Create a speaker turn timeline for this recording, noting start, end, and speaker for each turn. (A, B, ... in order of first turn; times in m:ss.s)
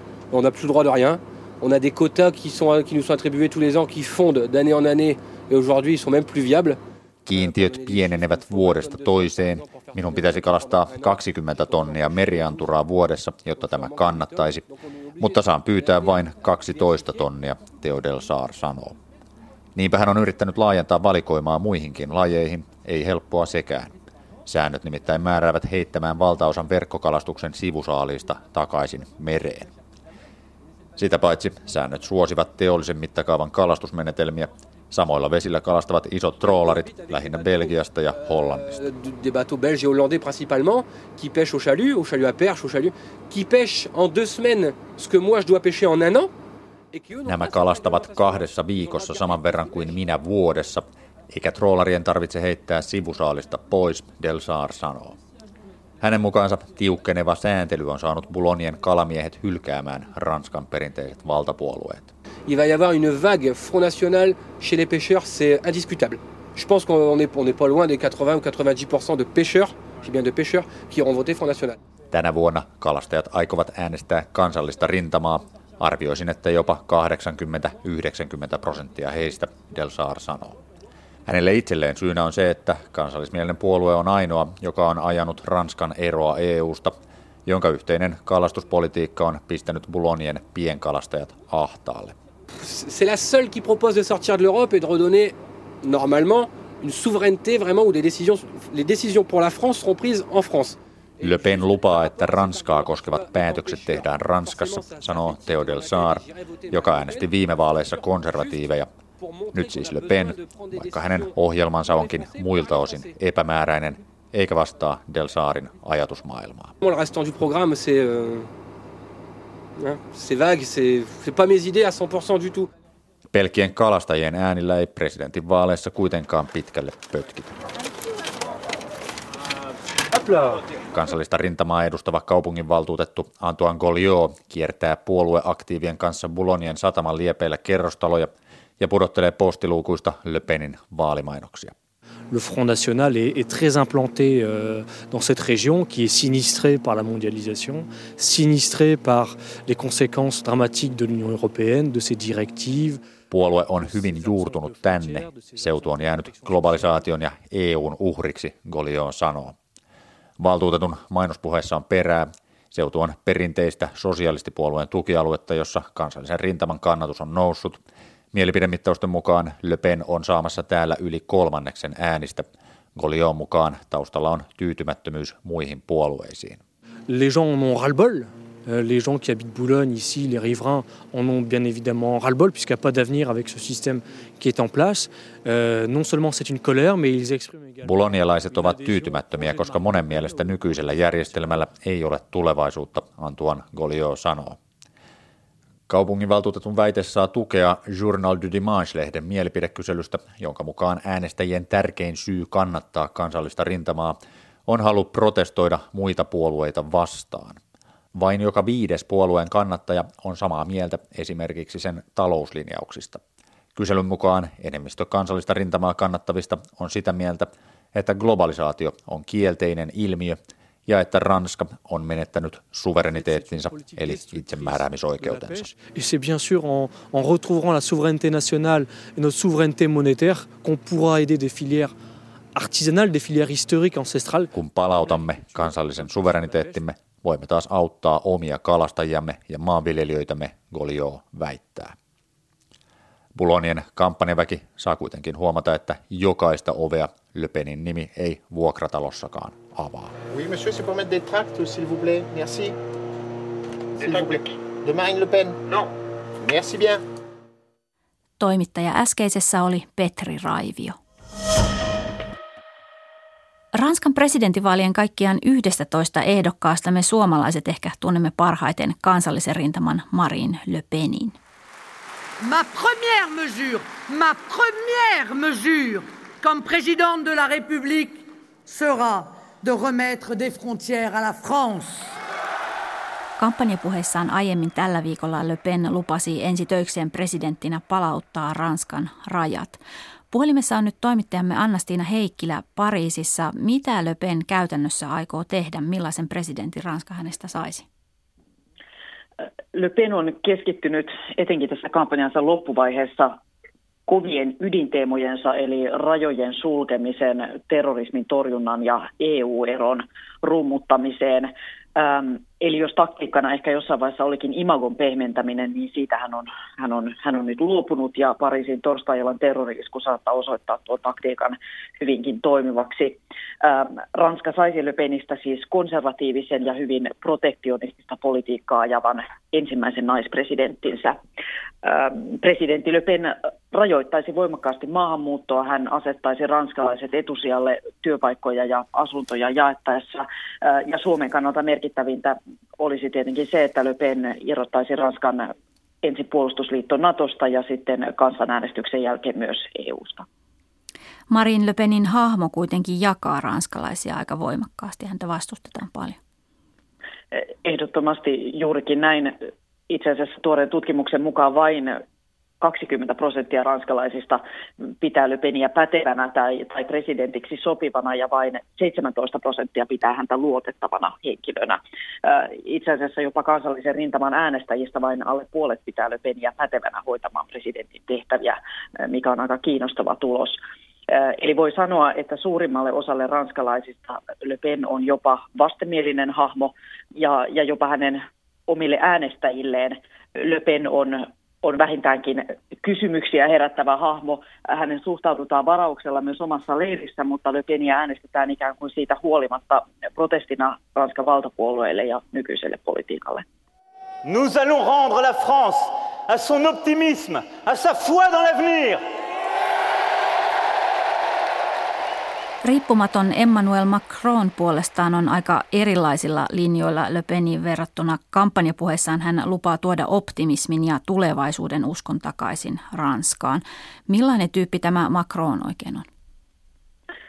0:00.3-0:12.7 A
0:07.3-0:14.6 B
0:13.5-0:17.3 A
0:15.2-0:19.0 B
0:19.8-0:23.9 B
0:24.5-0:29.7 B
0:31.0-0:38.8 B
0:36.4-0:46.3 A
0:46.9-0:50.0 A
0:47.2-0:55.2 B
0:56.0-1:02.1 B
1:02.5-1:11.8 A
1:12.1-1:20.6 B
1:21.3-1:32.2 B
1:32.6-1:53.2 A
1:41.2-1:48.9 B
1:49.5-1:56.7 B
1:56.8-1:58.5 A
1:59.8-2:02.7 A
2:03.3-2:07.6 B
2:10.2-2:10.6 A
2:10.9-2:21.8 B
2:22.3-2:33.0 C
2:33.3-2:39.6 B
2:33.6-2:37.1 C
2:40.4-2:47.8 B
2:48.3-2:56.6 B
2:57.1-3:11.6 C
3:07.8-3:14.6 B
3:15.9-3:27.6 B
3:28.2-3:33.2 B
3:33.8-3:45.7 B
3:43.0-3:51.9 C
3:52.6-3:56.8 C
3:54.5-4:01.9 B
4:03.4-4:10.1 B
4:10.3-4:12.8 D
4:14.0-4:15.9 D
4:16.4-4:17.0 D
4:18.4-4:21.0 E
4:23.7-4:31.4 E
4:32.4-4:42.2 F
4:43.4-4:49.8 E
4:50.3-4:57.8 E
4:59.7-5:03.4 G
5:04.1-5:31.2 G
5:31.8-5:50.2 G
5:51.3-5:56.2 E
5:57.3-5:59.4 G
5:59.9-6:02.0 G
6:02.6-6:04.4 G
6:05.0-6:43.4 G
6:44.2-6:49.0 H
6:52.6-7:06.1 E